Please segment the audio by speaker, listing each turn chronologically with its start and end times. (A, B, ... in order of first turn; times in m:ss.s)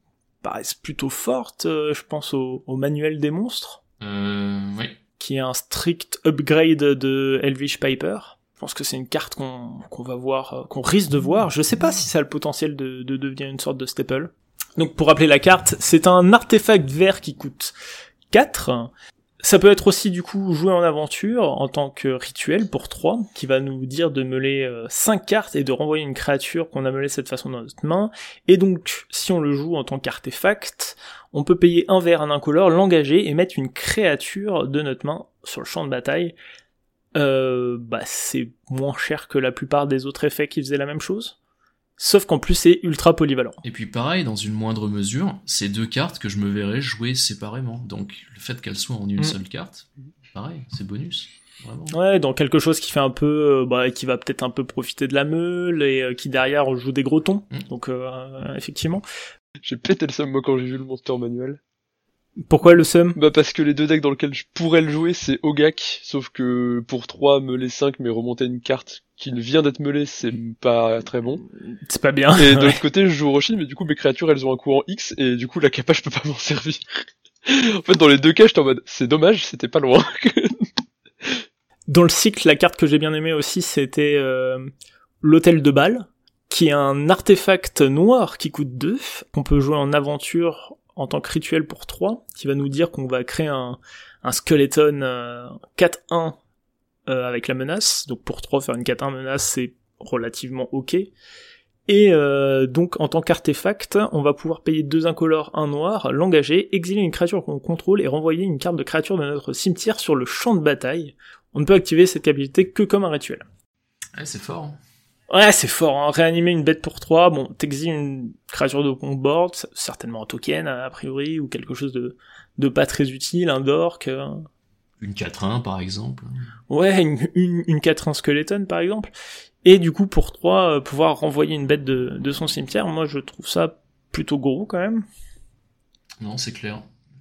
0:00.4-0:03.8 A
0:04.0-0:05.0 B
0:05.2-0:17.7 A
0:18.3-0:18.9 A
0:19.4-0:36.3 A
0:37.2-0:41.4 A
0:42.0-0:43.6 A
0:43.6-0:52.0 B
0:51.9-0:59.0 A
0:59.6-1:01.6 C
1:02.5-1:03.2 A
1:03.2-1:11.4 C
1:11.7-1:12.8 A
1:12.4-1:20.7 C
1:21.9-1:24.7 A
1:25.2-1:36.4 A
1:37.1-1:41.1 A
1:41.9-1:53.4 A
1:54.2-1:54.8 B
1:55.3-2:04.5 A
2:05.0-2:06.4 B
2:06.7-2:09.1 A
2:09.6-2:15.0 A
2:16.2-2:16.9 B